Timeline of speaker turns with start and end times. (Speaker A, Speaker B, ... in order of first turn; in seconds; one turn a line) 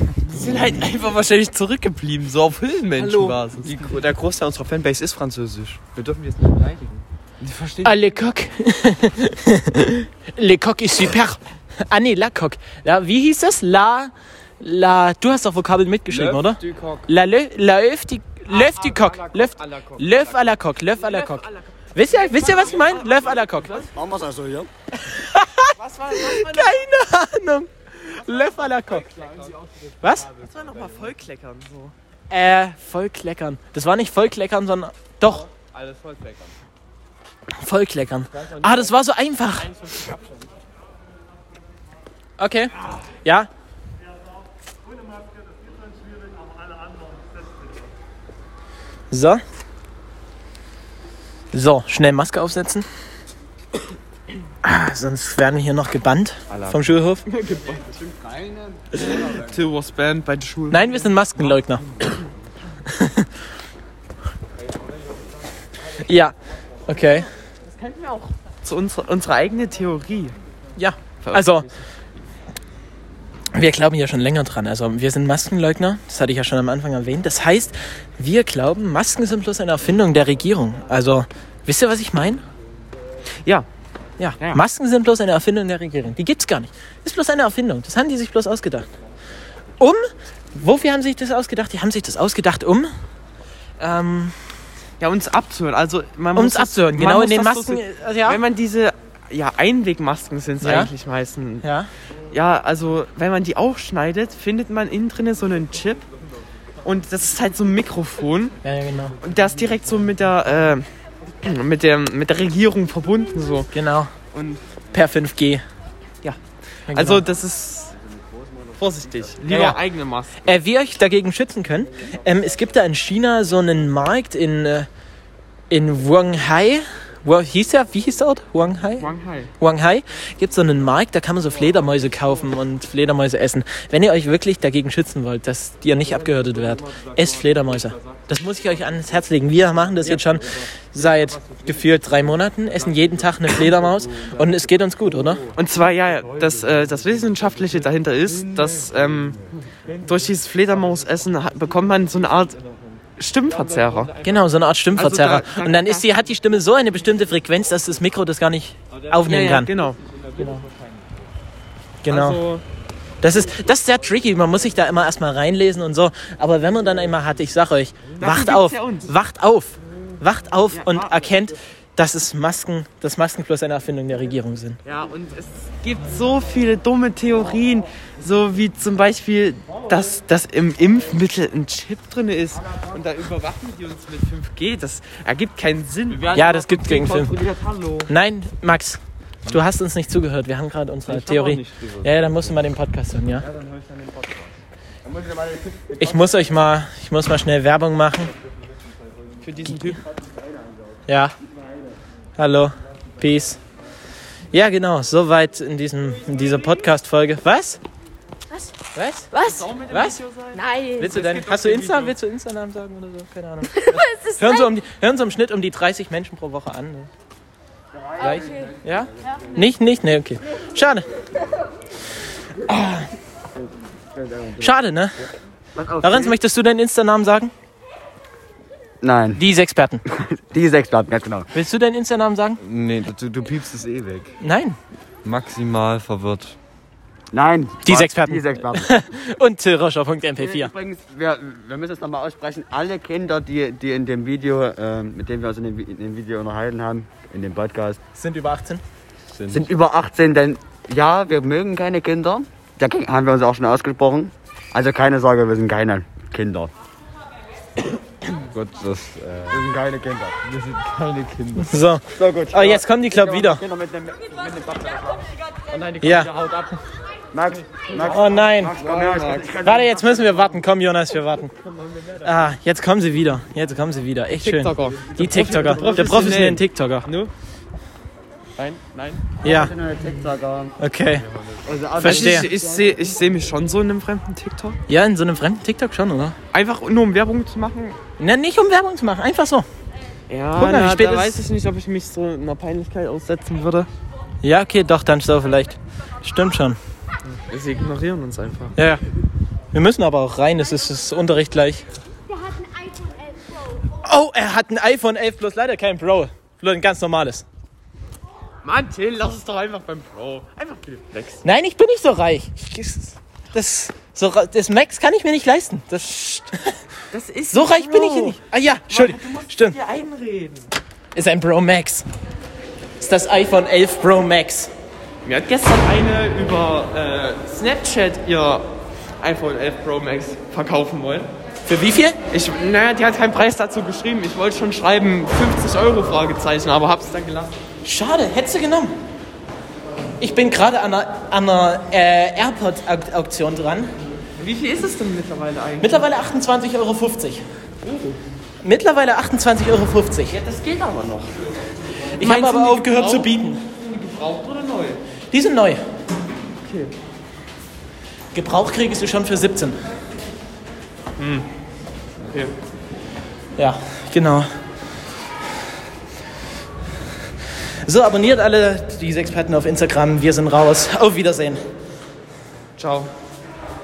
Speaker A: 0.3-4.0
Speaker B: 3.0-5.9
Speaker A: 6.0-7.9
Speaker C: 7.8-23.9
Speaker A: 16.6-17.0
Speaker A: 18.5-23.9
Speaker D: 23.9-24.7
Speaker C: 25.0-29.1
Speaker A: 25.8-26.9
Speaker A: 28.9-31.9
Speaker C: 30.0-30.3
Speaker C: 32.3-35.5
Speaker A: 35.7-36.5
Speaker C: 37.6-39.9
Speaker C: 42.4-43.5
Speaker C: 49.1-49.4
Speaker C: 51.5-52.9
Speaker C: 54.6-57.2
Speaker A: 57.3-57.9
Speaker D: 57.9-59.5
Speaker A: 59.0-61.1
Speaker C: 60.7-62.0
Speaker C: 63.0-63.3
Speaker C: 66.0-66.3
Speaker C: 66.9-67.3
Speaker A: 67.7-70.3
Speaker C: 70.8-71.7
Speaker A: 71.2-71.8
Speaker C: 73.5-82.4
Speaker C: 84.2-88.9
Speaker C: 90.5-92.9
Speaker C: 93.8-94.3
Speaker A: 95.0-101.7
Speaker C: 96.3-98.4
Speaker C: 100.6-100.9
Speaker C: 101.6-101.9
Speaker A: 102.3-106.1
Speaker A: 106.8-108.6
Speaker C: 108.6-109.2
Speaker A: 109.2-110.9
Speaker A: 111.4-113.7
Speaker C: 113.7-114.1
Speaker A: 114.3-114.6
Speaker C: 114.9-115.6
Speaker C: 116.9-117.2
Speaker A: 116.9-118.0
Speaker A: 118.8-120.5
Speaker C: 119.5-119.8
Speaker C: 120.4-124.9
Speaker C: 125.7-129.1
Speaker A: 129.0-129.5
Speaker C: 129.6-145.5
Speaker A: 145.6-152.6
Speaker A: 153.2-154.2
Speaker C: 154.2-159.7
Speaker A: 154.9-156.1
Speaker A: 159.2-160.0
Speaker C: 160.4-160.6
Speaker C: 162.0-162.4
Speaker A: 162.1-162.6
Speaker C: 163.2-174.8
Speaker A: 168.2-169.1
Speaker A: 170.7-171.3
Speaker A: 174.8-186.3
Speaker D: 186.1-188.1
Speaker C: 186.3-187.3
Speaker C: 188.1-193.5
Speaker B: 191.1-192.3
Speaker D: 193.4-194.5
Speaker D: 195.0-195.8
Speaker C: 196.0-198.3
Speaker A: 199.4-200.0
Speaker C: 201.1-201.3
Speaker C: 202.4-203.6
Speaker C: 204.5-207.8
Speaker C: 208.9-209.3
Speaker E: 209.3-209.6
Speaker A: 209.3-212.2
Speaker C: 209.9-210.2
Speaker E: 210.6-211.1
Speaker C: 210.9-217.1
Speaker E: 213.8-214.7
Speaker C: 218.2-221.1
Speaker C: 222.7-223.1
Speaker D: 224.2-224.7
Speaker C: 224.6-225.2
Speaker D: 225.8-226.4
Speaker C: 226.0-227.5
Speaker D: 229.0-229.4
Speaker C: 229.4-230.0
Speaker D: 230.1-231.5
Speaker C: 231.5-232.6
Speaker B: 232.6-234.4
Speaker C: 234.4-234.8
Speaker B: 235.2-236.6
Speaker D: 237.3-238.9
Speaker C: 237.8-240.7
Speaker D: 240.4-248.0
Speaker C: 248.2-248.8
Speaker B: 249.3-249.7
Speaker D: 249.5-256.7
Speaker B: 258.4-259.6
Speaker D: 259.5-260.4
Speaker B: 260.5-261.6
Speaker C: 261.6-263.6
Speaker D: 262.1-265.3
Speaker A: 265.7-266.8
Speaker C: 266.0-266.3
Speaker D: 267.3-270.4
Speaker C: 268.0-268.7
Speaker A: 268.8-269.5
Speaker C: 269.6-271.5
Speaker A: 271.7-272.3
Speaker C: 272.2-277.1
Speaker A: 274.4-277.3
Speaker D: 275.3-276.2
Speaker A: 278.6-279.3
Speaker C: 279.4-279.7
Speaker D: 279.4-280.8
Speaker C: 280.8-281.2
Speaker B: 281.3-281.6
Speaker D: 281.6-282.9
Speaker C: 282.0-282.5
Speaker A: 282.0-284.8
Speaker C: 284.9-286.4
Speaker A: 286.5-288.0
Speaker C: 288.2-289.6
Speaker A: 290.3-293.9
Speaker C: 290.6-291.3
Speaker C: 294.4-296.8
Speaker A: 297.4-298.7
Speaker C: 298.8-299.0
Speaker C: 299.7-301.9
Speaker E: 302.3-303.2
Speaker C: 304.0-307.4
Speaker A: 308.6-311.4
Speaker C: 311.4-316.8
Speaker A: 317.1-320.7
Speaker C: 317.5-319.8
Speaker C: 321.1-322.1
Speaker C: 323.0-324.7
Speaker A: 325.2-328.6
Speaker A: 329.2-331.3
Speaker C: 331.7-332.2
Speaker A: 332.3-337.6
Speaker C: 337.9-338.9
Speaker C: 340.2-343.9
Speaker A: 344.4-345.9
Speaker C: 345.8-347.4
Speaker A: 347.8-348.2
Speaker C: 348.6-350.4
Speaker A: 350.3-355.0
Speaker C: 352.1-353.6
Speaker C: 355.3-355.8
Speaker A: 356.6-356.9
Speaker C: 358.3-359.8
Speaker A: 361.2-361.5
Speaker A: 362.2-362.5
Speaker C: 363.6-364.5
Speaker C: 367.8-371.6
Speaker A: 372.8-373.1